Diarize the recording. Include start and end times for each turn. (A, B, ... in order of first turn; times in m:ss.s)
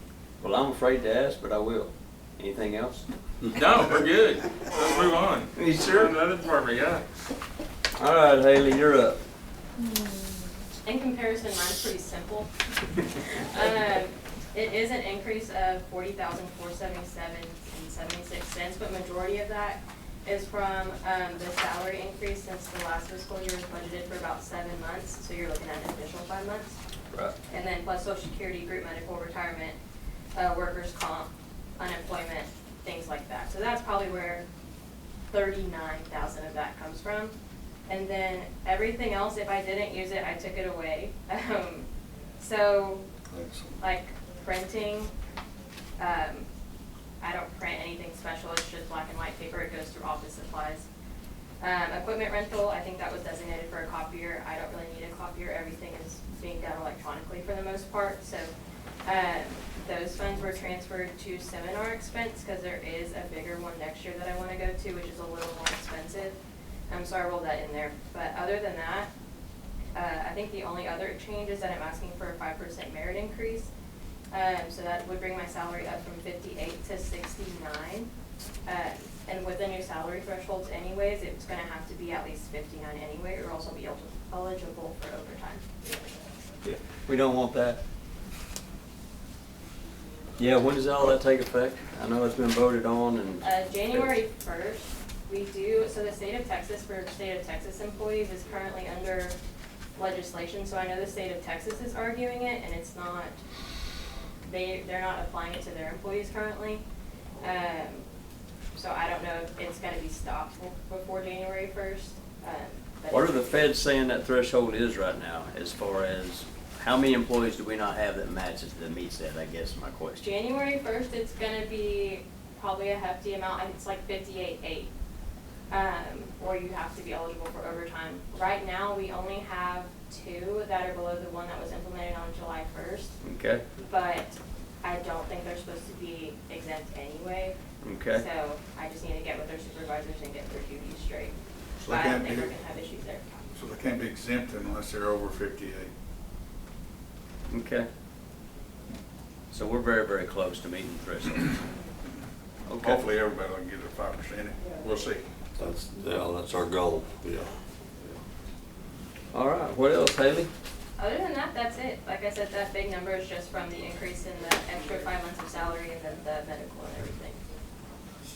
0:00.4-0:03.5 A
0:03.5-0:07.0 B
0:05.5-0:06.2 A
0:08.0-0:09.2 A
0:09.8-0:10.0 C
0:10.8-0:12.5 C
0:13.5-0:26.8 C
0:27.5-0:29.8 C
0:30.3-0:34.4 C
0:35.3-0:37.3 C
0:37.9-0:41.9 C
0:42.4-0:43.0 C
0:43.3-0:43.7 D
0:43.8-0:45.1 C
0:46.0-0:46.5 C
0:47.2-0:50.9 C
0:51.6-0:58.5 C
0:59.0-1:06.4 C
1:06.9-1:09.1 C
1:09.9-1:13.7 C
1:14.3-1:18.1 C
1:18.6-1:26.0 C
1:26.6-1:27.8 A
1:30.4-1:34.1 A
1:33.4-1:39.4 C
1:40.0-1:43.4 C
1:44.4-1:46.8 C
1:47.4-1:48.0 C
1:48.7-1:53.7 C
1:53.1-2:00.2 A
2:00.2-2:04.9 C
2:05.7-2:13.1 C
2:13.2-2:13.6 A
2:13.8-2:17.6 C
2:17.8-2:18.2 A
2:18.1-2:21.3 C
2:21.8-2:22.5 E
2:21.9-2:23.4 C
2:23.5-2:25.9 E
2:27.5-2:27.9 A
2:29.5-2:31.6 A
2:32.7-2:33.0 A
2:32.8-2:35.2 E
2:35.6-2:37.5 D
2:39.3-2:40.5 A
2:41.0-2:47.4 C